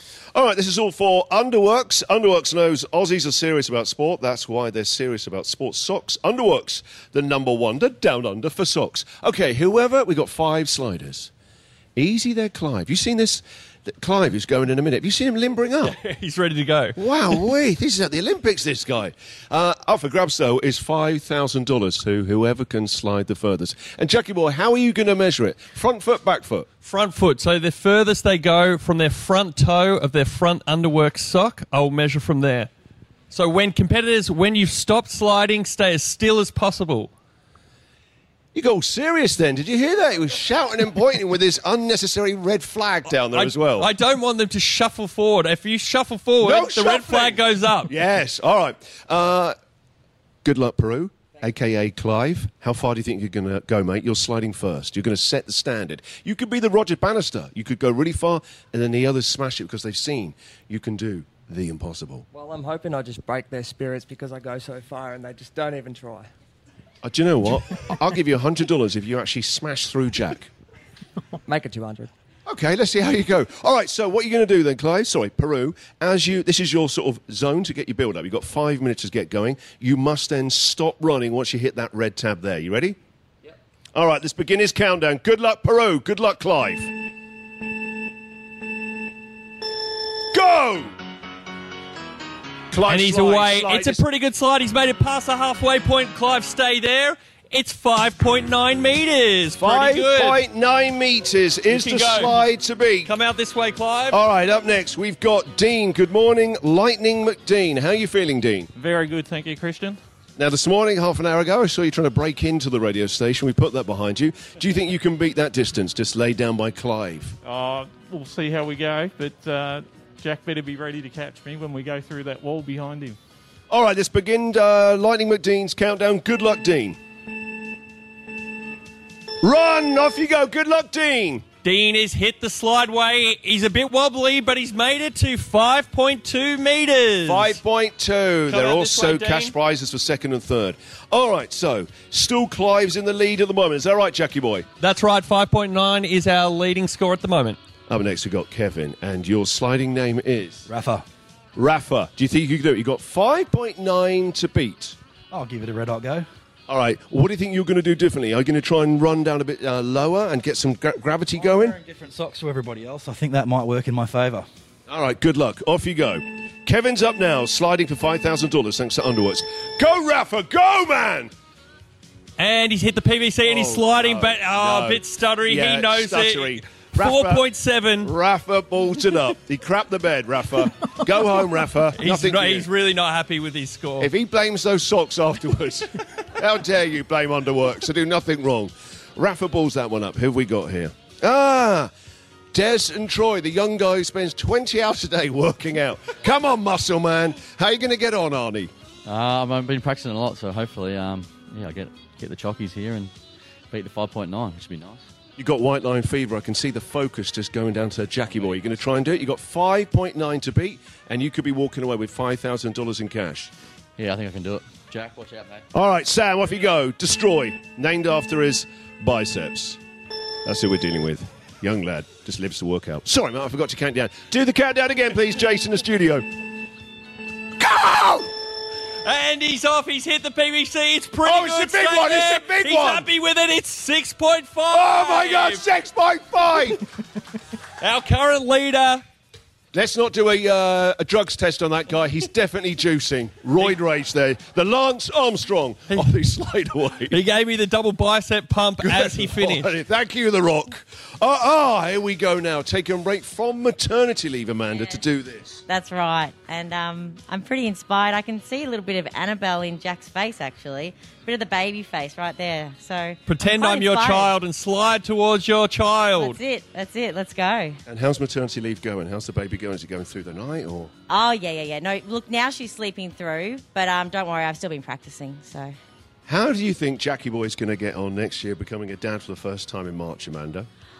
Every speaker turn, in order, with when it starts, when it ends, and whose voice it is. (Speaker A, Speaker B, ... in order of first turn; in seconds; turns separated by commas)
Speaker A: 0.3-11.3, Speaker A: 11.9-15.9, Speaker B: 15.8-16.9, Speaker A: 16.9-26.7, Speaker B: 26.8-32.7, Speaker B: 33.3-37.1, Speaker A: 38.5-43.9, Speaker B: 43.1-47.9, Speaker A: 46.4-49.5, Speaker A: 50.4-62.2, Speaker C: 62.3-66.3, Speaker A: 67.0-70.5, Speaker C: 71.5-72.1, Speaker A: 72.5-83.0, Speaker A: 83.9-86.9, Speaker A: 90.3-90.9, Speaker A: 92.7-94.0, Speaker B: 92.9-100.4, Speaker A: 99.6-103.1, Speaker B: 101.7-102.5, Speaker B: 103.0-104.2, Speaker A: 104.1-108.7, Speaker D: 108.8-110.0, Speaker A: 110.4-117.4, Speaker D: 117.4-123.2, Speaker A: 123.7-127.0, Speaker A: 129.4-131.4, Speaker B: 131.6-137.6, Speaker A: 137.2-144.7, Speaker B: 138.5-139.5, Speaker B: 144.8-147.6, Speaker A: 147.9-150.7, Speaker E: 150.7-151.0, Speaker A: 151.6-155.0, Speaker E: 155.3-156.2, Speaker A: 156.7-161.8, Speaker E: 161.5-164.5, Speaker A: 164.9-171.3, Speaker B: 172.4-178.1, Speaker A: 173.4-177.4, Speaker A: 178.0-182.7, Speaker B: 182.0-184.1, Speaker A: 184.0-191.9, Speaker A: 192.5-198.7, Speaker F: 199.0-203.1, Speaker F: 203.7-205.1, Speaker A: 205.4-213.5, Speaker F: 214.0-215.7, Speaker A: 215.7-219.8, Speaker A: 220.4-226.2, Speaker A: 227.6-228.3, Speaker B: 229.0-235.6, Speaker A: 231.2-233.1, Speaker A: 234.7-236.8, Speaker B: 237.8-239.0, Speaker A: 239.7-247.2, Speaker B: 247.1-249.7, Speaker A: 248.8-255.6, Speaker G: 255.7-264.3, Speaker B: 263.3-266.4, Speaker G: 266.2-267.8, Speaker A: 267.9-270.9, Speaker G: 271.1-275.7, Speaker A: 276.3-280.7